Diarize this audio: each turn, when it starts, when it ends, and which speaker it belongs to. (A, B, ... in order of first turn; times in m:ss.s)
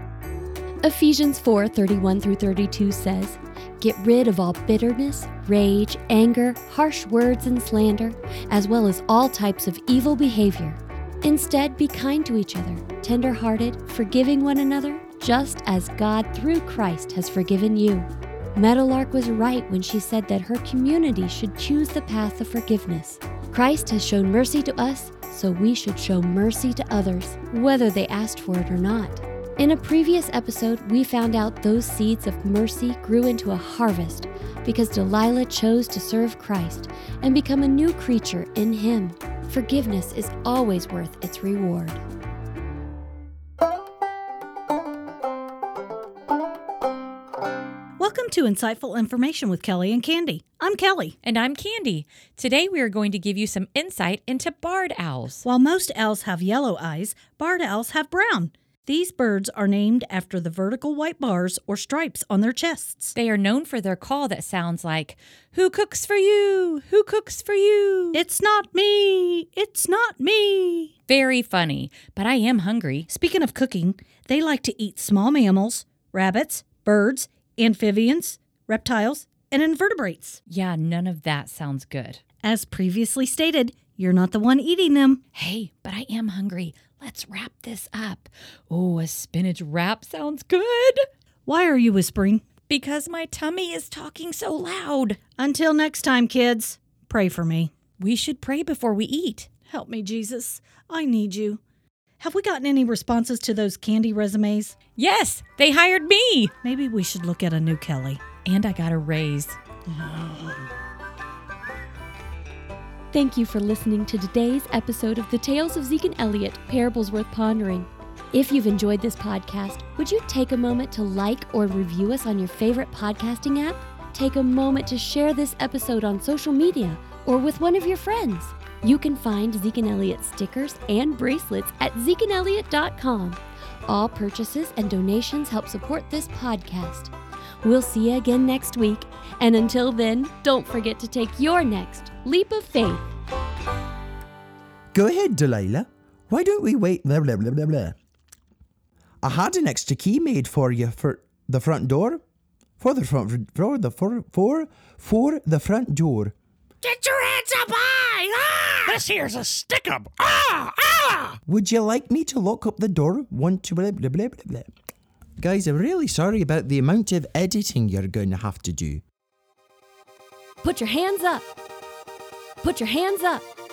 0:00.8-0:42.0 A
0:48.0-0:51.2 B
0:51.2-0:55.4 C
0:55.4-1:03.1 B
1:03.1-1:08.2 C
1:08.1-1:10.9 B
1:11.1-1:13.1 C
1:13.1-1:20.4 B
1:20.5-1:22.2 C
1:22.4-1:25.2 B
1:25.3-1:31.0 C
1:31.4-1:32.5 B
1:32.6-1:35.2 C
1:35.2-1:37.7 B
1:38.0-1:39.5 C
1:39.6-1:41.6 B
1:42.2-1:44.7 B
1:45.0-1:46.5 C
1:46.6-1:48.3 B
1:48.4-1:49.6 C
1:49.9-1:50.5 B
1:53.1-2:23.1 A
2:24.9-2:27.9 D
2:29.2-2:32.2 D
2:32.8-2:36.3 D
2:36.8-2:39.0 E
2:38.8-2:41.4 F
2:41.5-2:44.7 D
2:45.4-2:49.0 D
2:50.6-2:51.5 A
2:52.6-2:53.5 A